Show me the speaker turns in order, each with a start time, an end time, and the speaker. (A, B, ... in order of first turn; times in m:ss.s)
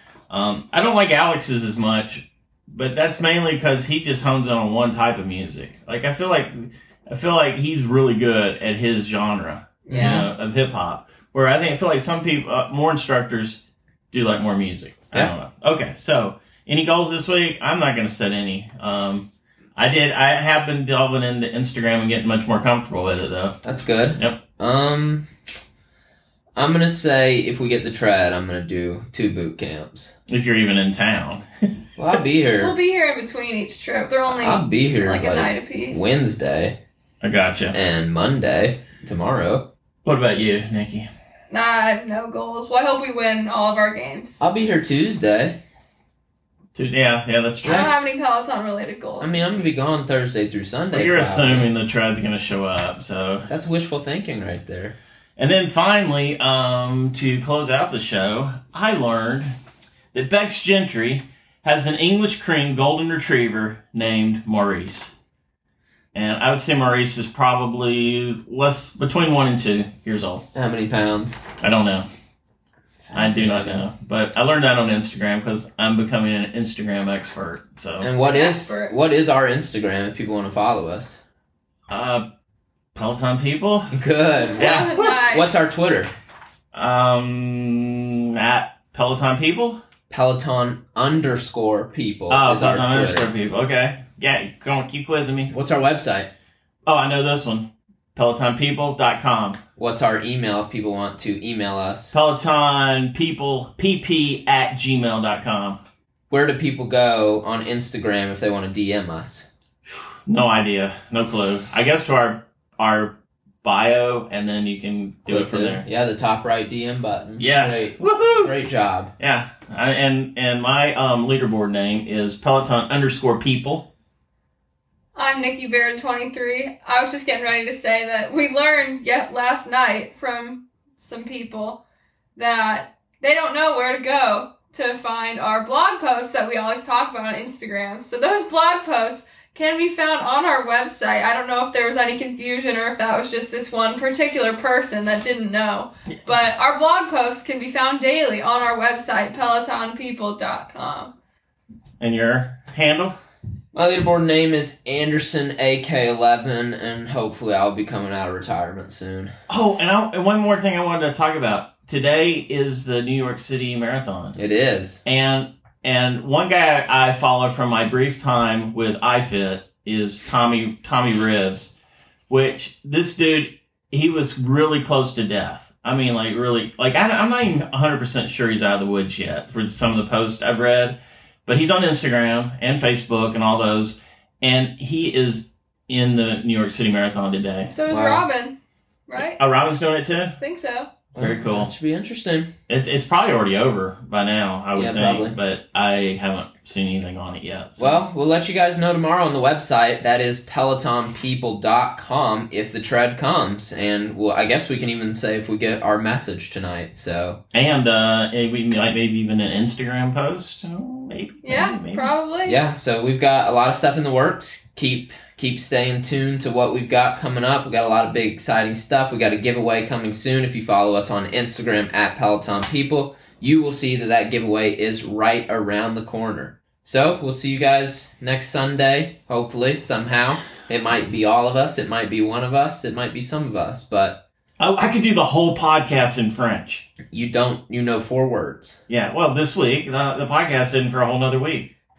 0:00.3-0:23.6 A
0:09.9-0:10.3 B
0:09.9-0:10.3 C
0:23.6-0:25.3 C
0:26.6-0:30.1 C
0:30.3-0:31.5 A
0:32.0-0:32.8 C
0:32.6-0:36.2 B
0:34.4-0:36.8 C
0:37.2-0:37.8 A
0:37.7-0:39.7 C
0:40.0-0:41.1 A
0:41.5-0:44.4 B
0:44.4-0:45.6 C
0:46.7-0:47.9 A
0:47.6-0:48.0 C
0:47.6-0:49.7 B
0:49.2-0:51.7 C
0:50.9-0:53.5 A
0:53.5-0:55.0 C
0:55.4-0:59.5 A
1:00.1-1:05.1 A
1:06.1-1:10.4 A
1:10.5-1:11.4 C
1:11.6-1:12.1 A
1:13.1-1:13.9 C
1:13.1-1:18.1 A
1:18.0-1:21.2 C
1:18.2-1:18.9 B
1:21.9-1:22.2 A
1:23.0-1:23.9 A
1:23.9-1:26.1 C
1:24.5-1:25.5 B
1:24.6-1:25.2 A
1:26.7-1:29.8 A
1:30.1-1:33.3 C
1:32.3-1:35.5 A
1:35.5-1:36.3 C
1:36.9-1:39.6 A
1:39.8-1:42.2 C
1:42.1-1:45.8 A
1:46.3-1:49.5 C
1:49.9-1:55.8 A
1:55.3-1:59.1 C
1:57.4-1:58.6 A
1:59.2-2:03.9 A
2:05.2-2:11.8 B
2:12.4-2:31.1 B
2:32.0-2:33.2 A
2:33.7-2:39.3 C
2:39.5-2:44.4 A
2:44.4-2:45.0 C
2:45.0-2:51.7 A
2:52.3-3:07.7 A
3:07.7-3:08.6 B
3:07.9-3:08.2 C
3:09.1-3:09.4 B
3:09.2-3:10.4 A
3:10.4-3:10.9 B
3:11.1-3:12.5 C
3:11.2-3:11.7 A
3:12.7-3:18.0 A
3:14.8-3:15.4 C
3:17.8-3:27.4 C
3:27.5-3:32.1 A
3:31.4-3:32.6 B
3:32.4-3:54.2 C
3:54.6-3:56.9 A
3:57.1-3:58.8 C
3:58.9-4:01.7 A